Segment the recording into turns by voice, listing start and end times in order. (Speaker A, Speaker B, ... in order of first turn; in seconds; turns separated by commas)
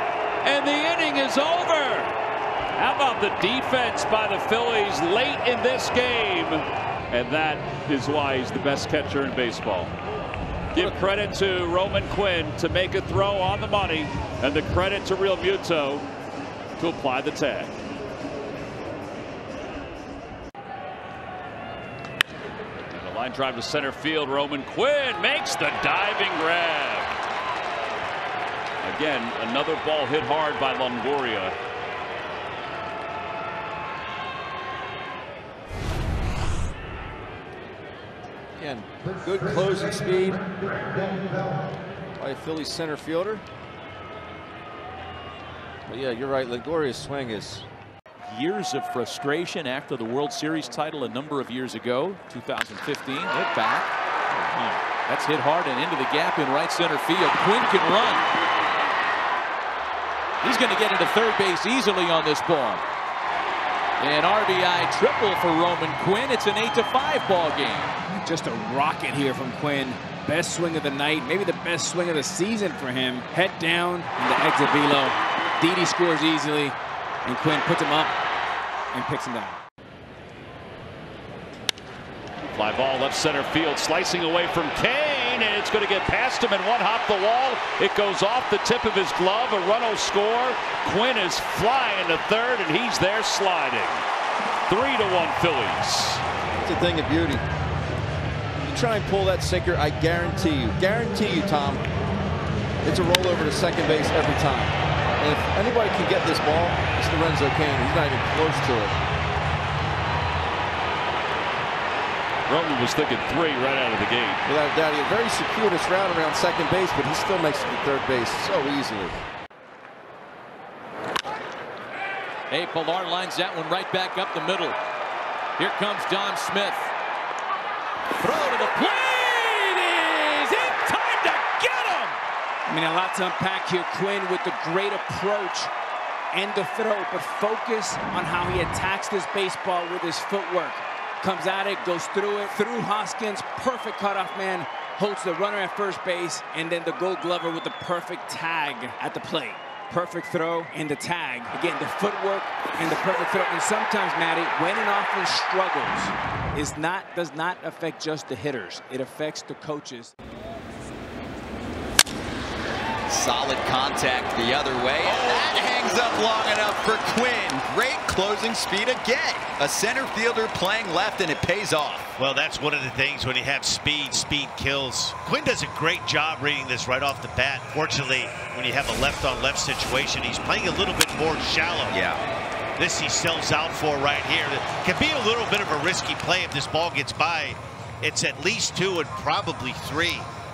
Speaker A: 0.4-2.1, Speaker A: 2.8-9.9, Speaker A: 10.7-16.1, Speaker A: 16.8-17.7, Speaker A: 22.9-27.1, Speaker A: 28.8-31.6, Speaker B: 38.6-40.5, Speaker B: 42.2-43.5, Speaker B: 45.9-47.7, Speaker C: 48.3-53.9, Speaker C: 55.1-58.2, Speaker C: 60.4-62.8, Speaker C: 64.0-67.9, Speaker D: 68.2-78.2, Speaker D: 78.9-79.6, Speaker A: 82.5-94.0, Speaker A: 94.7-96.2, Speaker B: 96.6-97.4, Speaker B: 98.7-101.8, Speaker B: 102.8-109.0, Speaker A: 112.5-114.4, Speaker B: 114.5-119.2, Speaker C: 122.5-124.8, Speaker C: 125.7-126.8, Speaker D: 130.1-132.1, Speaker D: 132.7-135.7, Speaker D: 136.3-160.1, Speaker E: 163.1-172.1, Speaker F: 172.2-182.0, Speaker E: 181.9-182.2, Speaker F: 182.8-190.3